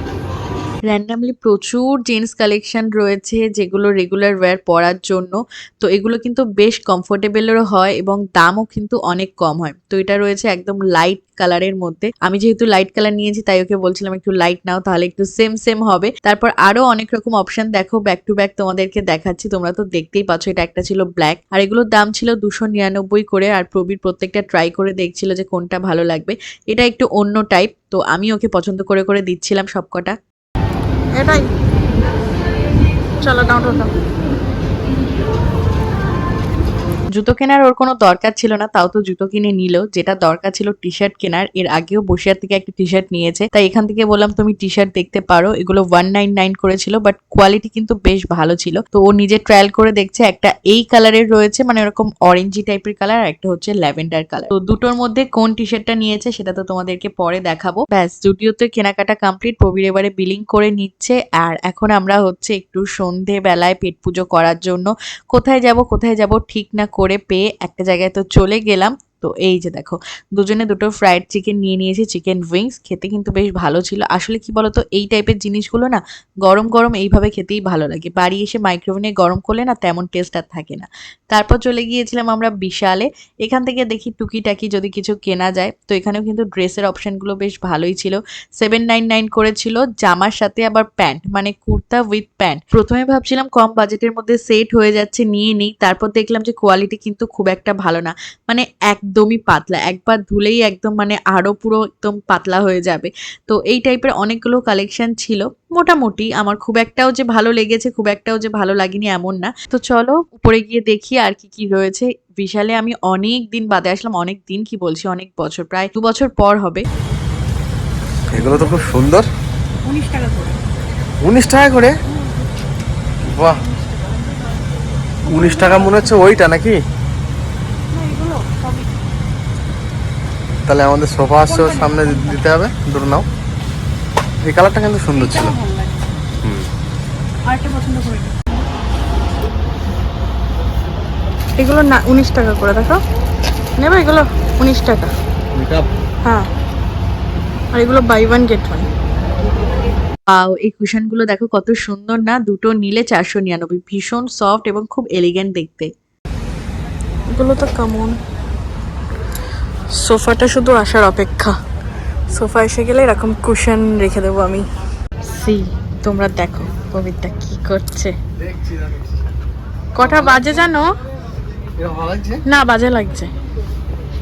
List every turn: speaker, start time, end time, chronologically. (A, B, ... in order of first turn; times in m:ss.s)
0:00.9-0:30.2 A
0:31.2-0:31.4 B
0:33.2-0:33.9 B
0:37.2-1:56.8 A
1:58.3-1:59.0 B
1:58.3-1:59.3 C
1:59.8-2:00.6 B
2:01.2-2:01.9 C
2:03.2-2:03.6 C
2:03.5-2:04.1 B
2:05.3-2:06.2 B
2:05.3-2:06.8 C
2:07.9-2:08.9 B
2:10.7-2:13.3 C
2:11.4-2:12.4 B
2:14.4-2:15.6 C
2:15.2-2:16.1 B
2:16.4-2:16.7 C
2:17.5-2:18.6 B
2:21.6-2:23.0 B
2:23.8-2:25.1 B
2:25.6-2:25.9 C
2:27.7-2:28.9 B
2:30.3-2:35.9 A
2:37.4-2:38.2 B
2:40.0-2:41.6 B
2:42.3-2:44.7 B
2:45.2-2:48.2 B
2:48.4-2:49.1 C
2:50.0-2:50.9 B
2:50.0-2:50.5 C
2:51.8-2:52.4 C
2:52.5-2:53.3 B